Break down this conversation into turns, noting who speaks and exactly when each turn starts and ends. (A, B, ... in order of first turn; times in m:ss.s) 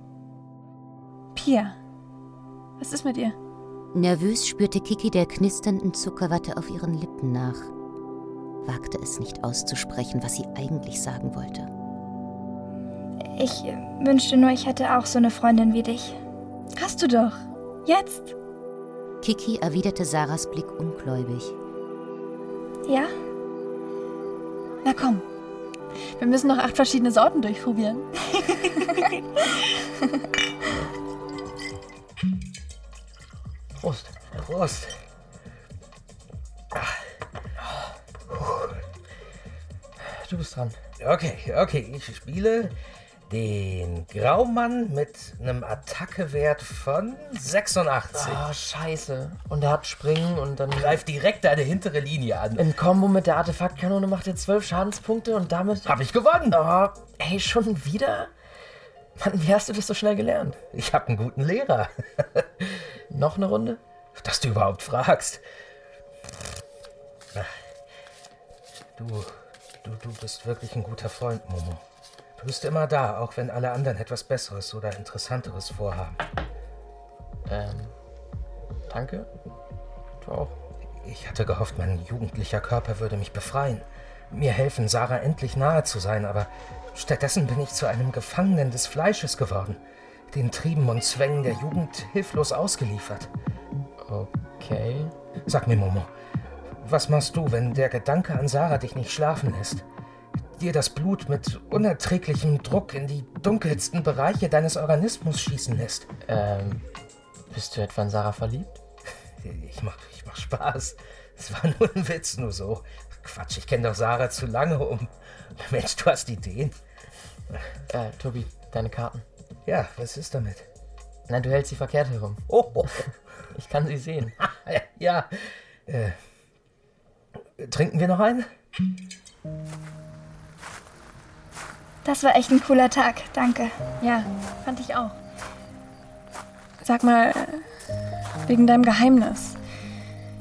0:01.4-0:01.8 A
0:02.8-0:03.4 A
0:03.9-0:07.7 B
0:08.6-0:11.7 B
0:13.4-0:16.2 C
0:16.8-0:18.3 A
0:19.2-0:21.6 B
0:24.8-0:25.2 A
0:26.2-0:29.0 A
0:33.8-0:34.2 D
0:34.3-0:34.9 E
0:38.3-0:38.8 E
0:40.1-0:40.8 D
0:41.0-0:42.7 E
0:43.3-0:48.5 E
0:48.1-0:51.1 D
0:50.7-0:52.7 E
0:52.6-0:55.9 D
0:55.8-0:56.6 E
0:56.5-0:58.3 D
0:59.2-1:00.6 D
1:00.7-1:02.6 E
1:03.1-1:03.8 D
1:04.2-1:05.4 E
1:09.0-1:11.8 E
1:12.4-1:16.2 E
1:17.5-1:17.9 D
1:18.9-1:19.3 D
1:20.2-1:20.6 D
1:21.0-1:29.8 E
1:30.3-1:33.3 E
1:34.0-1:35.1 D
1:35.5-1:36.1 E
1:36.8-1:39.8 E
1:40.6-1:46.1 E
1:46.2-1:46.8 D
1:47.5-1:48.8 D
1:49.4-1:56.8 E
1:57.9-1:59.2 D
1:59.6-2:00.7 E
2:01.3-2:02.4 D
2:02.5-2:03.0 E
2:03.5-2:04.4 D
2:04.4-2:05.3 E
2:05.9-2:06.2 E
2:07.6-2:08.5 E
2:12.0-2:13.7 C
2:14.0-2:15.2 A
2:16.8-2:17.6 A
2:18.5-2:19.6 A